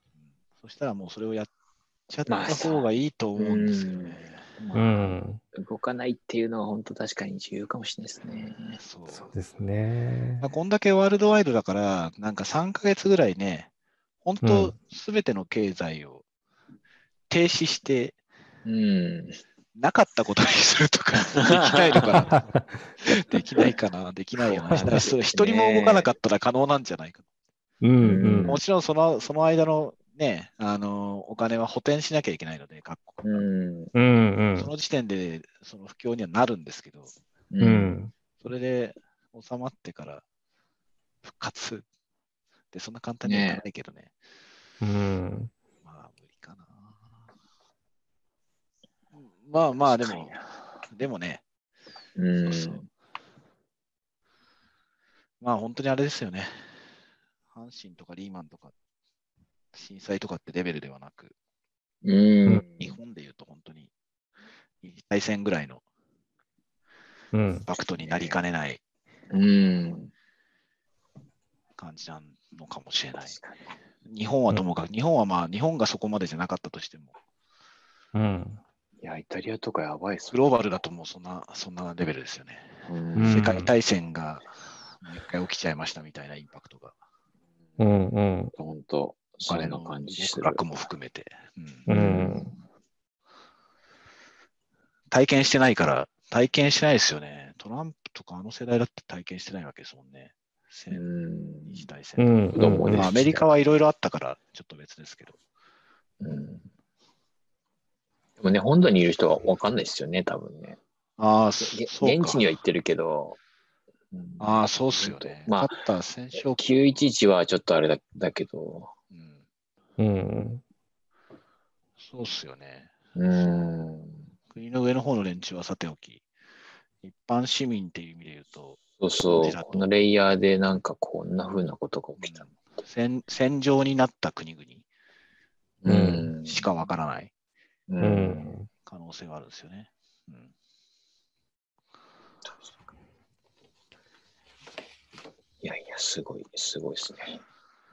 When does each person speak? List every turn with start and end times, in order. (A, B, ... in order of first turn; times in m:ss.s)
0:00.6-0:01.5 A
0:02.1-0:04.4 A
0:02.3-0:02.8 B
0:03.4-0:08.8 B
0:04.7-0:05.4 C
0:08.8-0:09.3 A
0:09.2-0:10.5 C
0:10.4-0:13.7 A
0:14.2-0:16.2 A
0:14.4-0:14.8 C
0:17.3-0:18.2 A
0:18.6-0:19.4 B
0:19.8-0:27.2 A
0:21.3-0:22.1 B
0:24.5-0:26.1 B
0:27.8-0:28.5 C
0:28.0-0:28.6 B
0:28.5-0:33.4 A
0:33.2-0:33.9 B
0:34.0-0:34.7 C
0:34.6-0:37.1 A
0:37.5-0:38.0 B
0:37.6-0:38.1 C
0:38.4-0:40.2 A
0:41.2-0:41.8 A
0:42.7-0:44.1 A
0:43.2-0:43.6 B
0:44.8-0:45.5 C
0:45.8-0:47.0 A
0:49.2-0:50.4 A
0:49.8-0:50.6 B
0:50.9-0:51.4 A
0:52.2-0:52.9 B
0:52.4-0:52.8 A
0:55.4-0:56.7 A
0:57.5-0:58.7 A
0:59.7-1:01.3 A
1:02.0-1:03.0 B
1:02.8-1:03.9 A
1:04.8-1:05.8 A
1:07.3-1:07.7 C
1:07.7-1:08.8 A
1:08.0-1:08.4 B
1:09.3-1:10.1 B
1:11.8-1:13.4 A
1:13.2-1:13.6 B
1:14.1-1:17.1 A
1:18.2-1:18.6 C
1:19.0-1:20.4 B
1:20.3-1:24.5 A
1:22.9-1:23.6 B
1:23.2-1:23.7 C
1:25.0-1:27.0 A
1:27.8-1:28.5 C
1:28.6-1:30.7 B
1:29.5-1:31.9 A
1:31.9-1:32.5 B
1:31.9-1:32.5 C
1:35.1-1:41.0 A
1:40.9-1:41.9 B
1:41.7-1:45.4 A
1:42.2-1:43.1 C
1:42.5-1:43.5 B
1:46.2-1:46.7 B
1:48.4-1:50.8 B
1:51.2-1:52.4 A
1:51.6-1:53.4 B
1:54.1-1:55.8 B
1:54.4-1:57.0 A
1:56.4-1:58.9 B
1:59.1-1:59.4 A
2:00.0-2:00.6 C
2:02.0-2:03.7 A
2:03.2-2:04.3 B
2:04.5-2:06.2 A
2:07.0-2:09.9 A
2:09.0-2:12.5 B
2:12.2-2:14.8 A
2:15.8-2:16.7 B
2:15.9-2:17.3 A
2:17.9-2:18.6 B
2:18.0-2:18.7 C
2:18.9-2:20.5 A
2:22.5-2:22.7 B
2:25.6-2:27.4 B